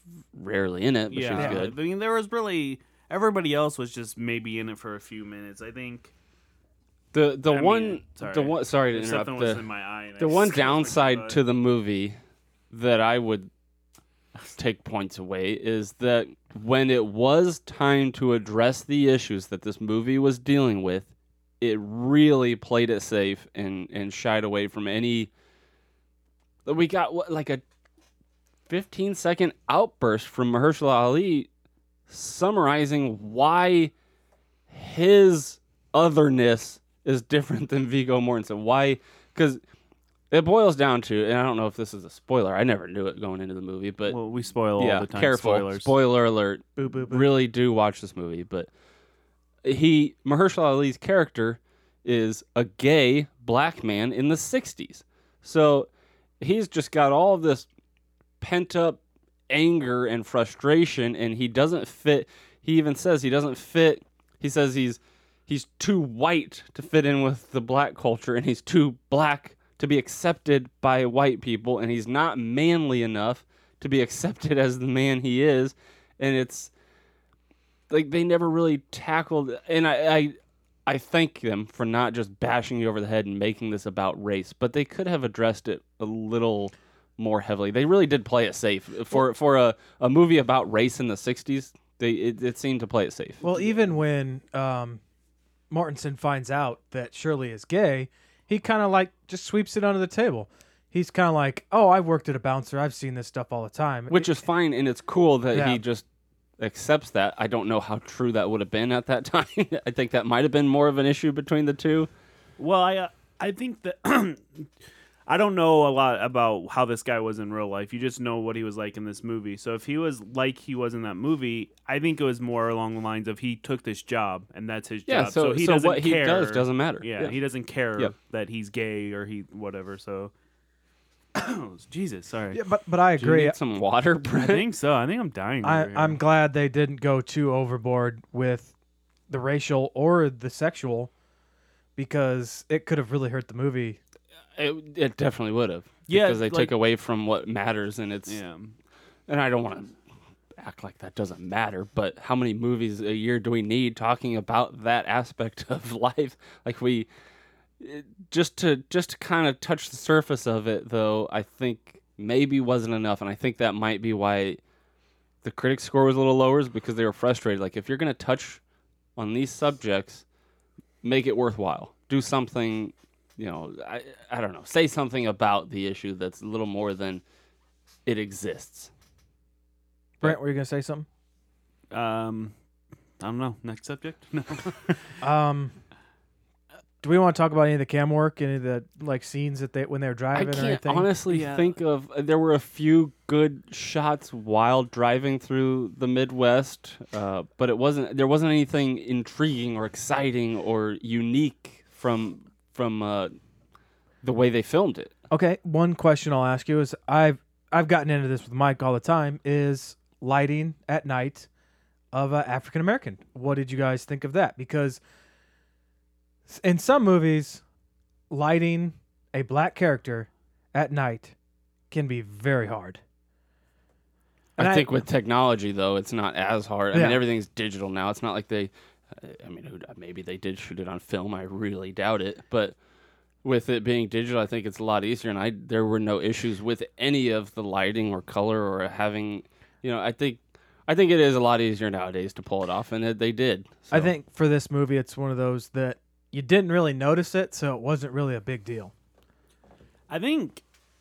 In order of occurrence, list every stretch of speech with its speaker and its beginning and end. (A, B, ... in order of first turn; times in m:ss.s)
0:00.3-0:01.8 A
0:01.1-0:06.1 B
0:01.4-0:01.7 C
0:07.1-0:09.7 A
0:07.5-0:11.4 B
0:10.2-0:12.2 A
0:12.7-0:13.5 A
0:14.6-0:21.1 A
0:21.6-0:25.3 A
0:26.7-0:27.6 A
0:28.7-0:31.5 A
0:32.1-0:33.9 A
0:34.7-0:39.6 A
0:40.3-0:44.2 A
0:44.1-0:45.9 B
0:44.8-0:48.7 A
0:46.8-0:47.3 C
0:49.6-0:55.9 A
0:56.4-0:57.7 A
0:58.4-1:16.7 A
1:17.9-1:33.4 A
1:33.4-1:35.0 C
1:35.7-1:44.3 C
1:44.1-1:46.0 A
1:45.5-1:45.8 C
1:46.6-1:52.1 A
1:52.6-1:54.7 B
1:55.3-2:10.3 B
2:05.1-2:07.4 A
2:11.4-2:12.6 B
2:12.5-2:13.6 C
2:13.2-2:14.7 A
2:14.3-2:16.2 B
2:15.6-2:18.7 C
2:19.3-2:21.1 C
2:22.0-2:24.0 C
2:24.6-2:28.4 A
2:26.1-2:26.7 B
2:28.3-2:28.8 B
2:29.3-2:30.0 A
2:30.6-2:37.1 A
2:37.8-2:44.6 A
2:45.4-2:48.6 A
2:49.2-2:50.2 A
2:51.0-2:57.2 A
2:58.1-2:58.9 A
3:00.2-3:01.1 C
3:01.9-3:02.5 B
3:03.2-3:05.1 B
3:05.2-3:05.8 C
3:07.0-3:11.1 C
3:10.4-3:23.4 A
3:11.3-3:11.7 B
3:24.2-3:25.1 A
3:25.3-3:31.5 C
3:32.1-3:35.0 C
3:36.5-3:37.6 C
3:38.3-3:41.4 C
3:41.9-3:43.0 C
3:44.6-3:44.9 C
3:44.6-3:52.8 A
3:46.9-3:47.2 C
3:53.4-4:04.1 A
4:03.9-4:08.9 C
4:10.1-4:10.6 B